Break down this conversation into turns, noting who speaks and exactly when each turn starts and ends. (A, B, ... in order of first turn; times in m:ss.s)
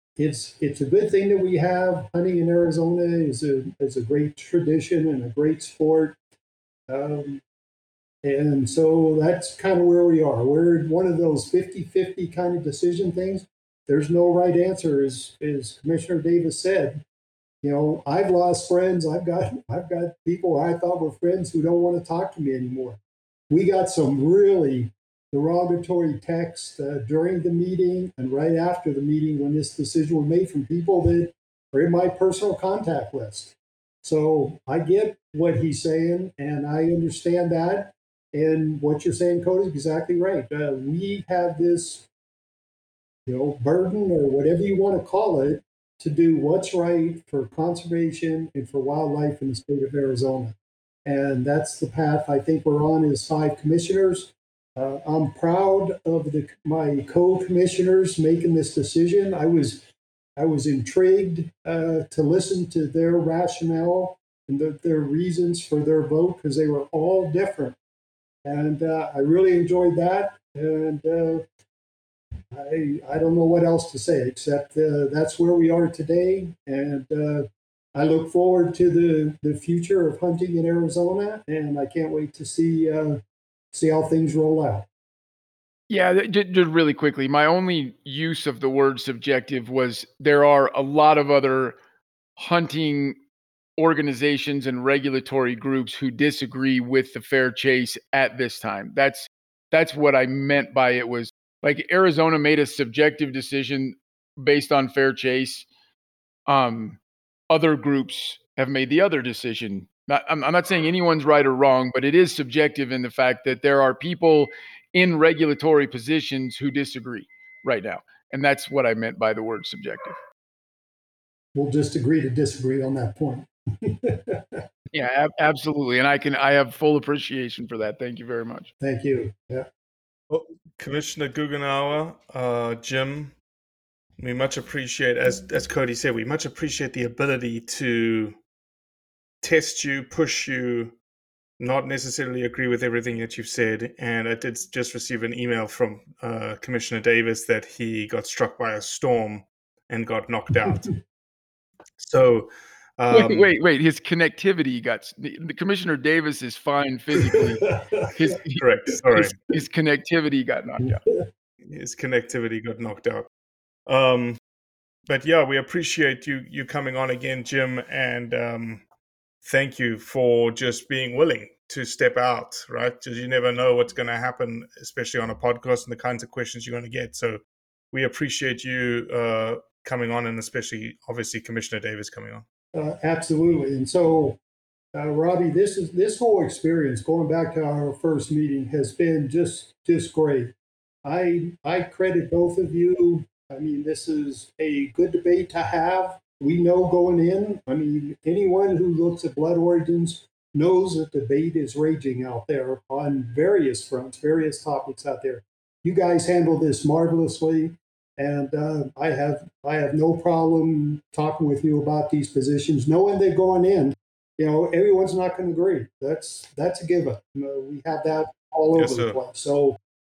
0:00.2-0:06.2 A
0:06.9-0:07.4 A
0:08.2-0:17.0 A
0:17.6-0:23.0 A
0:23.5-0:42.1 A
0:43.3-0:59.8 A
1:00.4-1:07.8 A
1:08.4-1:11.4 A
1:12.5-1:23.2 A
1:23.7-1:24.9 A
1:25.9-1:31.8 B
1:32.4-1:33.2 B
1:33.8-1:45.7 B
1:46.5-1:47.0 B
1:47.5-2:00.2 B
2:01.6-2:04.6 A
2:04.9-2:08.7 B
2:08.8-2:09.7 A
2:10.3-2:13.4 C
2:14.2-2:18.4 C
2:19.4-2:21.0 C
2:21.6-2:31.0 C
2:32.0-2:33.5 C
2:33.1-2:41.0 B
2:37.2-2:38.1 A
2:38.6-2:39.4 C
2:41.7-2:43.3 C
2:43.9-2:44.4 C
2:45.1-2:48.8 C
2:49.4-3:02.4 C
3:02.7-3:04.4 A
3:04.9-3:39.8 A
3:38.7-3:39.2 C